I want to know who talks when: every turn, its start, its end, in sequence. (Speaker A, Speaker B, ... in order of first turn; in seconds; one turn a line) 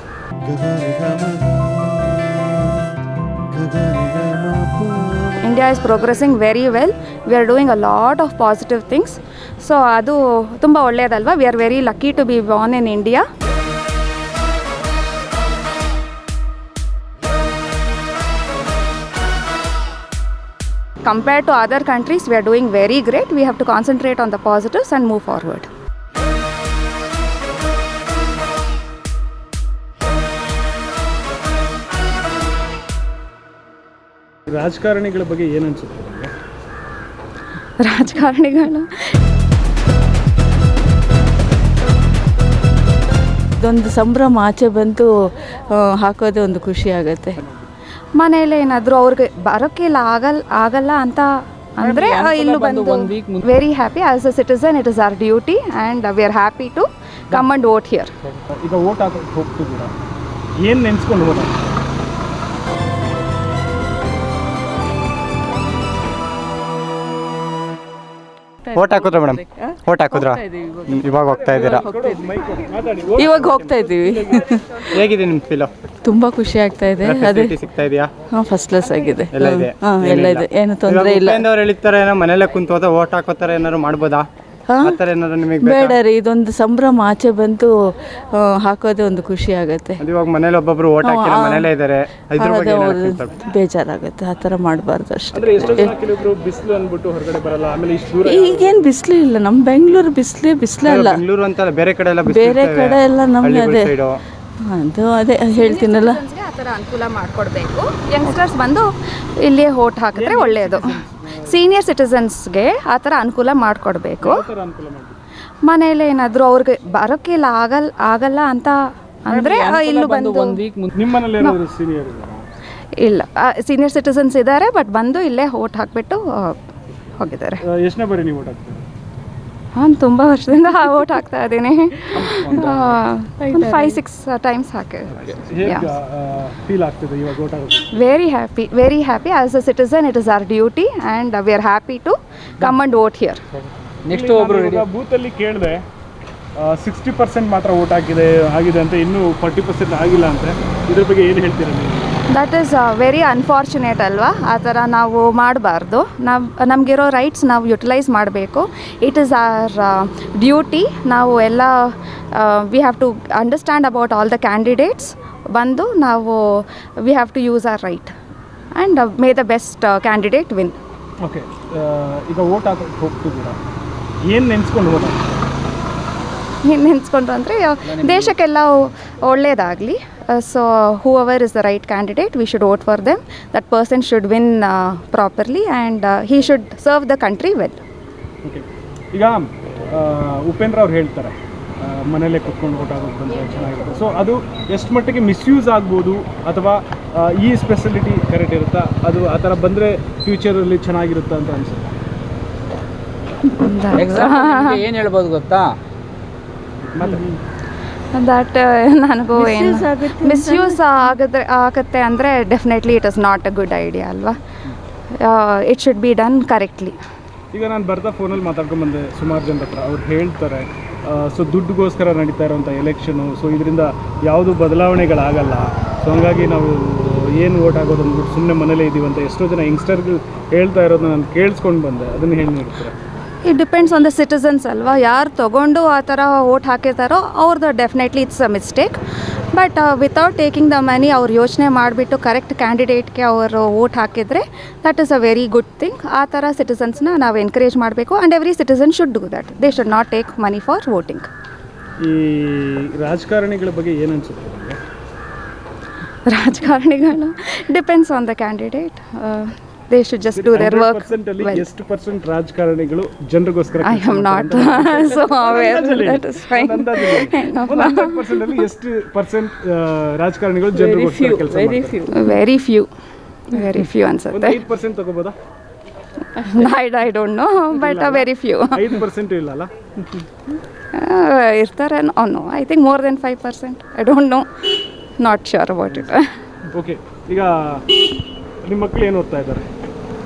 Speaker A: 0.5-1.6
Speaker A: 3.6-4.9
Speaker B: 5.4-13.2
Speaker B: 21.1-25.7
Speaker A: 34.5-36.3
Speaker B: 37.8-39.1
Speaker C: 43.6-47.4
Speaker B: 48.2-58.1
Speaker D: 51.8-53.5
Speaker A: 58.5-59.9
Speaker A: 60.6-61.7
Speaker E: 68.7-71.8
Speaker C: 69.5-71.0
Speaker A: 71.2-74.6
Speaker C: 71.7-72.2
Speaker C: 73.2-74.8
Speaker E: 74.9-75.7
Speaker C: 76.0-77.5
Speaker E: 77.0-78.1
Speaker C: 78.3-81.5
Speaker E: 79.3-84.3
Speaker C: 84.7-85.0
Speaker E: 84.8-86.0
Speaker C: 85.6-90.0
Speaker E: 90.0-93.4
Speaker C: 91.0-91.7
Speaker C: 92.3-95.9
Speaker A: 95.3-98.9
Speaker C: 98.2-101.2
Speaker E: 100.8-104.2
Speaker C: 102.2-103.9
Speaker C: 104.7-106.2
Speaker B: 105.5-114.5
Speaker A: 110.2-111.6
Speaker A: 114.2-115.2
Speaker B: 115.7-120.6
Speaker D: 119.3-120.9
Speaker A: 121.0-122.5
Speaker B: 123.0-126.6
Speaker B: 127.2-127.6
Speaker A: 127.6-128.9
Speaker B: 129.8-135.9
Speaker A: 132.1-133.0
Speaker C: 133.5-133.9
Speaker A: 135.2-137.9
Speaker B: 137.9-143.4
Speaker D: 144.1-144.9
Speaker A: 144.1-145.8
Speaker A: 146.6-152.2
Speaker B: 152.3-168.1
Speaker B: 168.8-170.8
Speaker A: 171.2-173.6
Speaker A: 174.2-175.3
Speaker B: 176.6-187.8
Speaker D: 177.9-178.4
Speaker A: 188.4-202.0
Speaker B: 203.5-204.8
Speaker D: 203.9-205.8
Speaker A: 206.9-207.4
Speaker B: 208.1-214.4
Speaker C: 209.3-211.1
Speaker B: 215.2-217.0
Speaker A: 217.5-233.0
Speaker B: 233.4-239.0
Speaker B: 239.5-251.3
Speaker A: 252.0-254.8
Speaker B: 256.3-261.7
Speaker A: 260.4-272.1
Speaker B: 263.8-268.6
Speaker C: 270.8-272.1
Speaker B: 272.1-272.9
Speaker B: 273.5-274.6
Speaker A: 274.3-275.4
Speaker B: 276.3-279.0
Speaker A: 277.8-279.7
Speaker B: 280.9-284.7
Speaker B: 285.2-286.4
Speaker A: 286.7-287.9
Speaker A: 288.6-289.7